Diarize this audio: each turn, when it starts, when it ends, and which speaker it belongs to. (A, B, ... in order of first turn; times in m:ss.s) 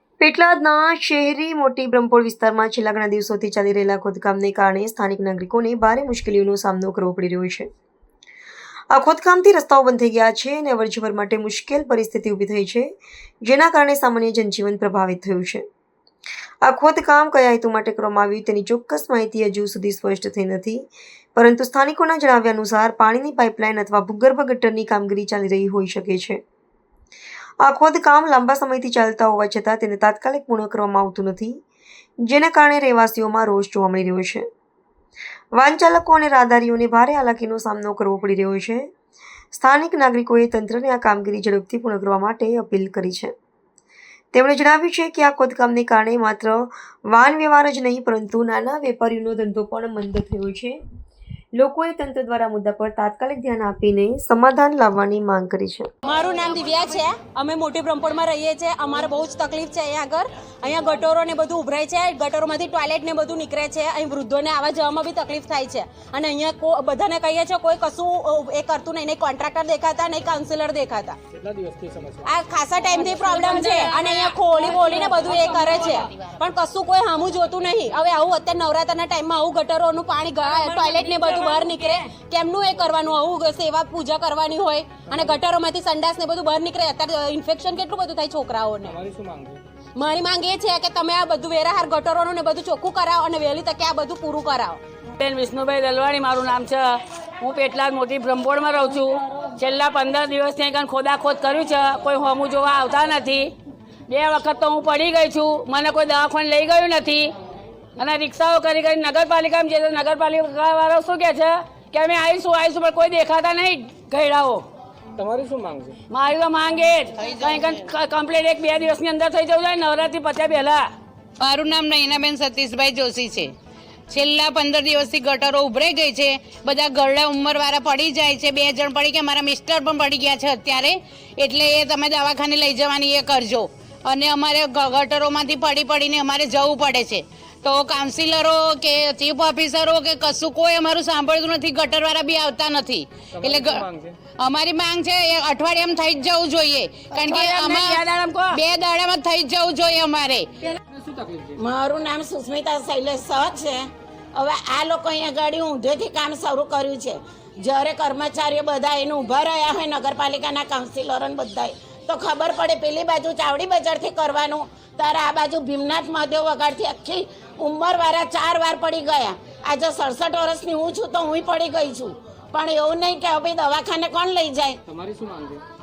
0:00.2-0:07.7 A
0:08.9-0:12.9 A
0:13.4-0:15.6 A
0:16.6-0:20.8 A
0:21.4-0:26.4 A
0:27.6-0:31.6 A
0:32.2-0:34.4 A
0:35.5-0:38.9 A
0:39.5-0:43.3 A
0:44.3-0:50.8 A
0:51.6-0:55.9 A
0:56.0-1:11.2 B
1:11.3-1:12.3 C
1:12.2-1:29.0 B
1:13.2-1:14.0 D
1:14.7-1:15.7 D
1:20.8-1:21.8 D
1:28.8-1:29.6 C
1:30.0-1:34.8 B
1:35.1-1:43.5 D
1:44.1-1:47.3 D
1:48.0-1:54.6 D
1:55.2-1:56.0 C
1:56.1-2:00.9 D
1:57.2-1:57.8 E
2:01.4-2:03.5 E
2:04.1-2:23.8 E
2:23.3-2:24.2 C
2:24.4-2:30.5 E
2:27.1-2:28.6 D
2:30.9-2:31.6 C
2:31.6-2:54.8 F
2:54.8-2:55.6 C